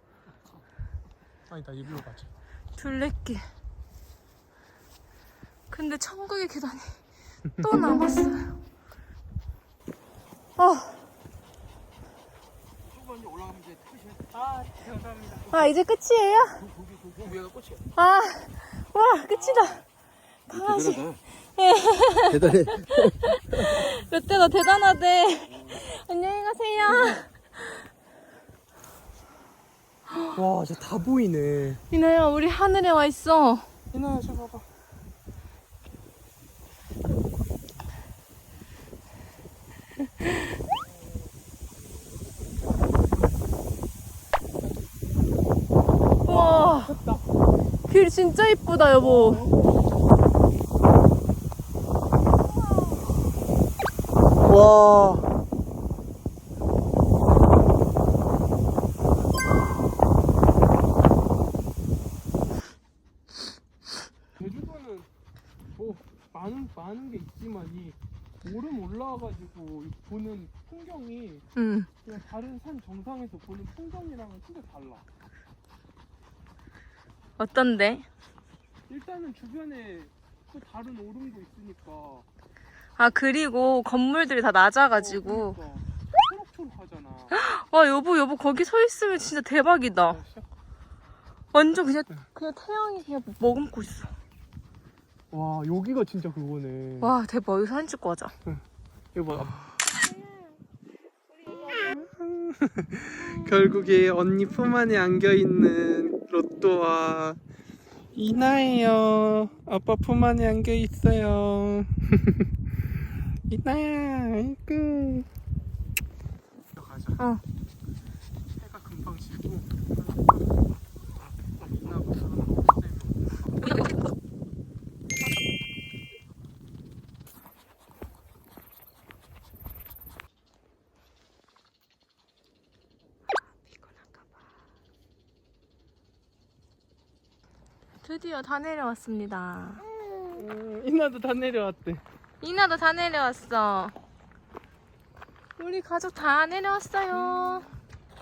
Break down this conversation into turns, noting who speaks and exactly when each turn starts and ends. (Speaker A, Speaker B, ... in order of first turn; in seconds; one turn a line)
Speaker A: 1.5-2.3
Speaker B: 2.8-3.4
Speaker B: 5.7-7.0
Speaker B: 7.6-8.6
Speaker B: 10.6-11.1
Speaker A: 14.0-15.6
Speaker B: 15.5-16.6
Speaker A: 16.7-17.8
Speaker B: 17.9-19.8
Speaker B: 20.5-27.8
Speaker A: 30.3-31.8
Speaker B: 31.9-33.7
Speaker A: 33.9-34.6
Speaker B: 46.2-47.0
Speaker A: 46.2-47.2
Speaker B: 47.9-49.5
Speaker A: 49.0-49.6
Speaker A: 54.4-55.3
Speaker A: 64.4-65.1
Speaker A: 65.8-71.5
Speaker B: 71.5-71.9
Speaker A: 72.0-75.0
Speaker B: 77.4-78.0
Speaker A: 78.9-82.2
Speaker B: 83.0-85.6
Speaker A: 84.9-87.3
Speaker B: 87.3-90.2
Speaker A: 90.1-90.5
Speaker B: 91.5-94.1
Speaker A: 95.3-97.1
Speaker B: 97.0-98.3
Speaker A: 99.1-99.8
Speaker A: 101.9-107.4
Speaker A: 108.1-112.5
Speaker A: 113.5-115.3
Speaker A: 116.7-117.2
Speaker B: 117.2-117.4
Speaker A: 118.6-120.6
Speaker A: 121.4-123.9
Speaker B: 138.0-139.8
Speaker A: 140.3-142.0
Speaker B: 142.4-143.9
Speaker B: 145.6-147.7